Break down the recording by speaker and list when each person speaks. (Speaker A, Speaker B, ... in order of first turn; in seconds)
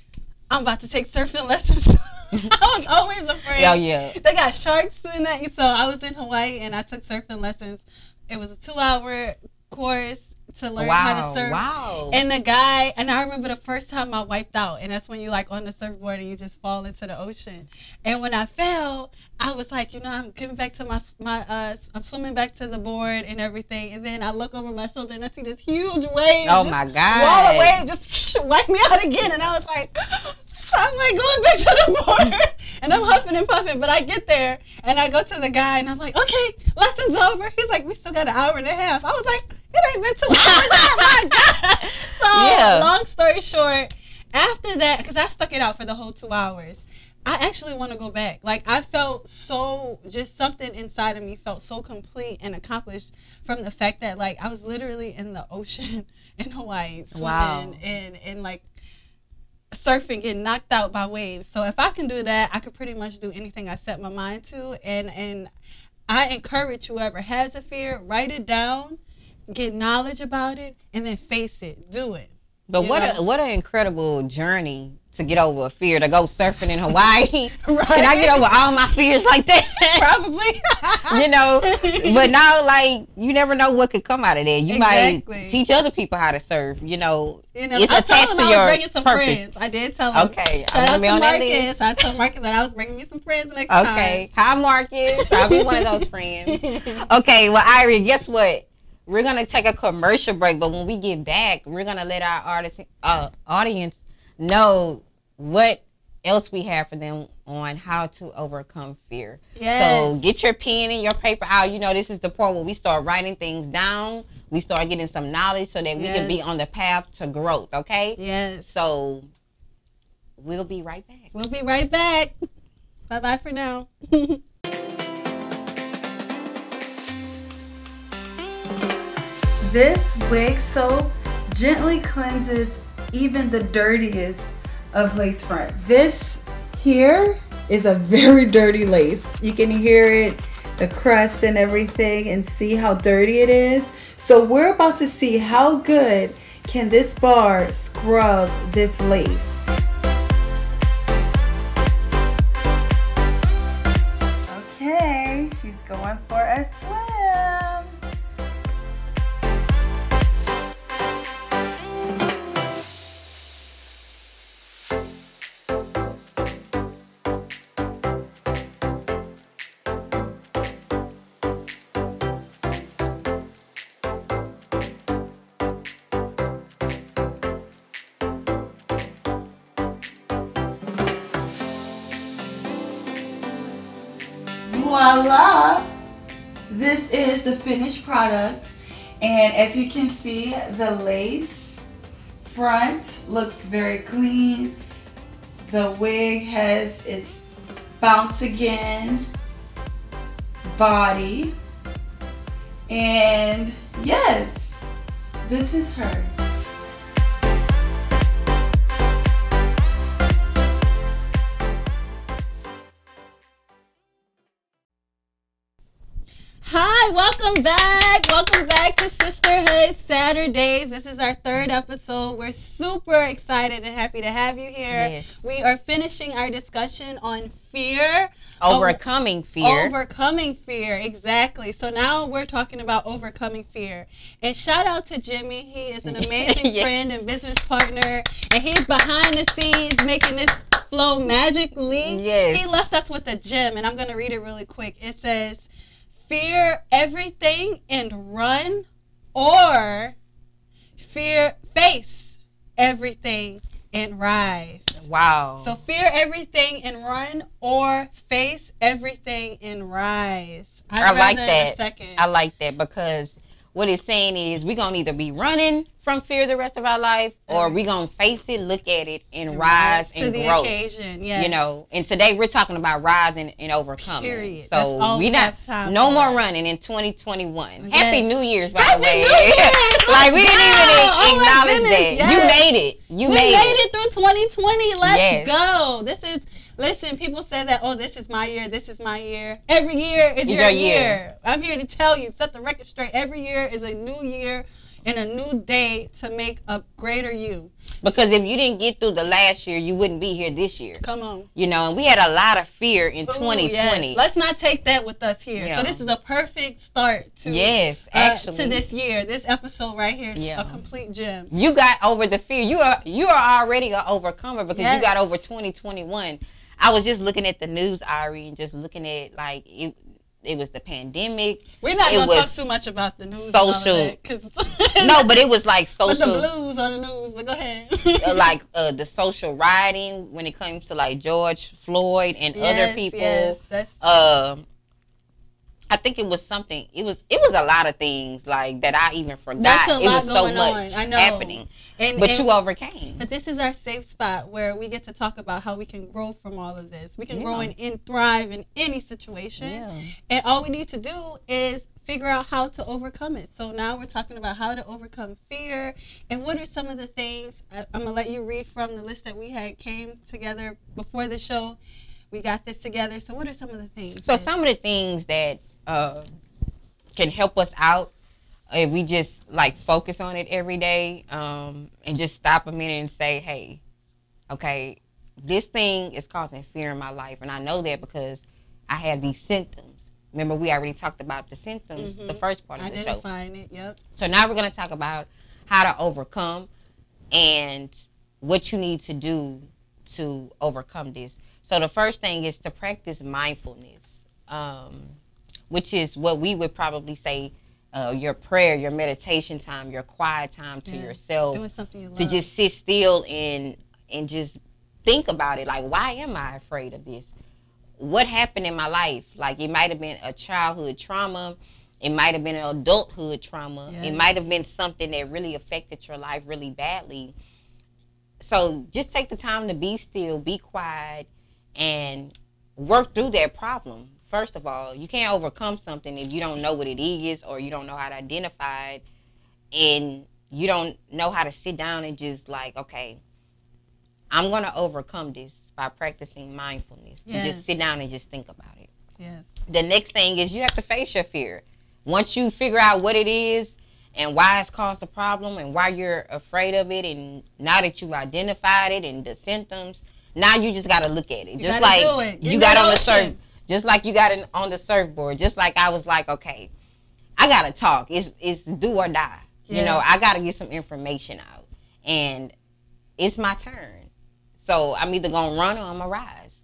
Speaker A: 0.5-58.7, 59.7-65.5, 66.1-69.0, 69.5-73.2, 77.6-78.8, 79.8-82.3, 84.7-85.6, 87.5-94.2, 95.1-97.0, 109.6-110.1, 116.0-116.4, 118.2-118.7, 121.3-122.3, 123.1-124.4, 216.6-229.0, 229.6-245.7, 246.3-250.2, 251.0-254.9, 255.6-262.2, 267.5-267.8, 269.5-271.5, 274.0-276.4, 277.8-282.6, 283.2-297.7, 301.0-301.5, 303.3-311.5, 314.7-315.1, 321.8-325.4, 326.0-328.5, 332.5-334.0, 339.6-342.5, 343.2-361.8, 362.3-364.5, 382.0-384.0, 400.9-402.5, 413.9-414.2, 437.3-437.6, 439.2-439.5, 451.6-453.4, 459.7-460.0
Speaker B: 3.5-4.2, 10.8-12.2, 26.4-27.8, 40.3-41.5, 42.3-42.9, 57.1-57.8, 72.7-80.2, 81.1-89.4, 90.1-91.7, 93.7-119.3, 120.4-121.3, 224.9-225.2, 228.6-229.9, 236.1-236.9, 242.1-242.7, 255.0-255.8, 261.0-270.7, 271.4-283.8, 285.0-285.6, 290.5-291.2, 298.0-301.0, 301.6-304.2, 305.6-306.0, 307.4-308.8, 310.4-310.8, 311.5-322.6, 323.4-324.2, 325.0-326.5, 328.2-334.6, 335.9-343.2, 347.3-347.7, 349.6-350.1, 364.2-366.3, 367.2-368.1, 368.7-373.8, 374.5-383.2, 384.2-386.7, 387.3-395.2, 395.7-401.6, 402.2-407.3, 408.0-417.3, 418.4-429.0, 429.7-433.2, 434.3-438.9, 439.7-456.7, 457.4-462.5, 463.2-466.6
Speaker C: 132.1-132.5, 133.4-133.8, 135.7-139.4, 140.8-149.5, 154.7-157.8, 184.7-185.9, 186.7-191.8, 192.5-194.7, 195.7-197.4, 198.0-199.2, 200.7-201.5, 202.9-204.8, 205.4-206.3